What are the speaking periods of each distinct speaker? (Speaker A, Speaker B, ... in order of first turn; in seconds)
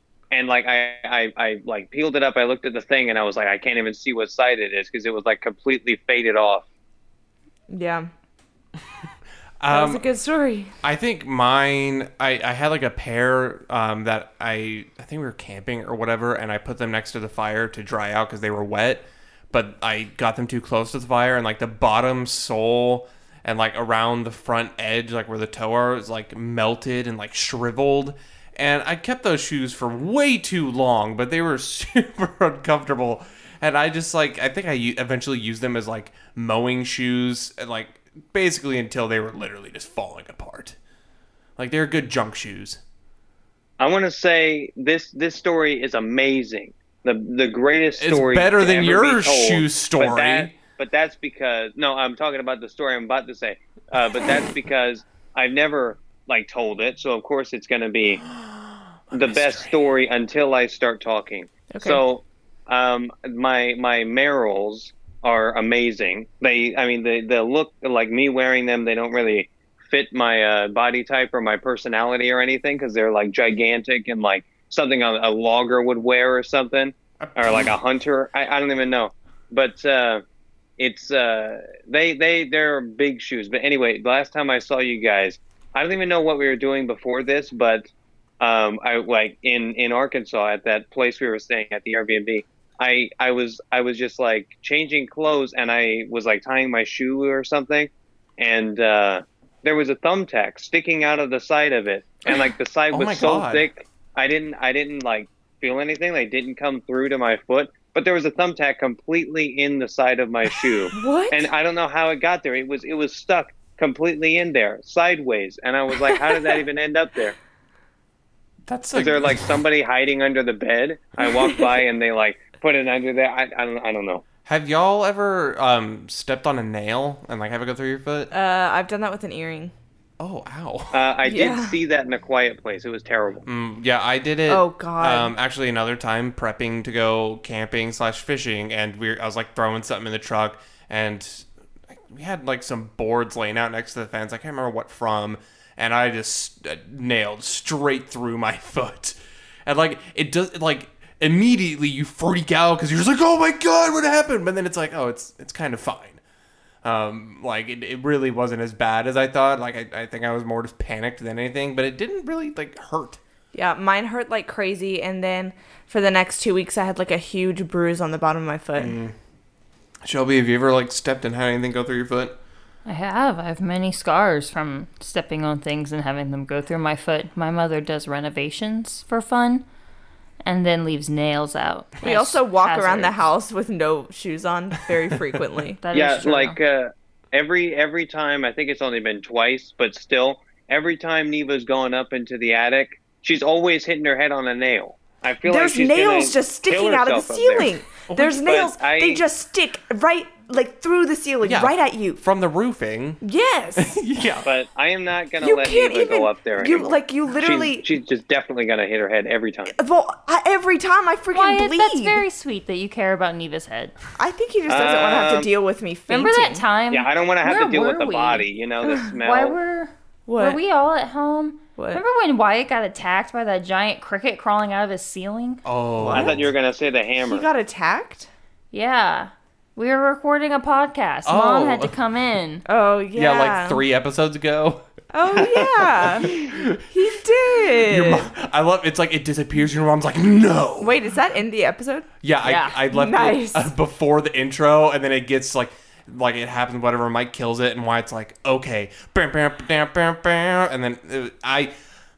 Speaker A: 0.3-6.7, 43.8-58.2, 59.1-80.2, 80.8-87.9, 88.4-117.4, 118.9-124.2, 130.9-133.5, 185.9-197.7, 198.3-199.2, 204.4-209.8, 214.7-215.5, 216.9-219.6, 226.1-227.5
Speaker B: 7.7-8.1, 9.7-10.7, 61.7-62.0, 110.9-111.5, 121.2-121.6, 128.3-129.7, 131.2-131.8, 134.5-135.3, 163.5-169.0, 182.0-185.8, 195.5-202.2, 203.2-204.0, 205.4-207.9, 209.7-212.2, 214.2-216.6, 220.3-220.6, 221.8-222.0, 226.1-226.5, 227.2-228.3, 232.7-233.8, 235.1-238.3, 240.8-242.1, 242.9-243.7
Speaker C: 9.6-10.0, 10.8-40.8, 41.6-42.8, 48.0-50.5, 58.2-59.8, 77.2-77.7, 102.9-103.7, 118.7-119.6, 124.5-128.3, 130.2-131.1, 133.4-156.2, 156.8-163.2, 168.8-169.2, 170.1-172.4, 198.1-198.4, 201.4-203.2, 203.8-204.5, 225.7-226.5, 231.3-231.9, 233.1-236.8, 237.8-241.0, 242.2-251.7
Speaker D: 172.9-179.7, 180.4-183.2, 185.8-186.6, 211.3-213.9, 216.1-218.5, 219.2-225.6, 228.7-232.7, 242.4-242.8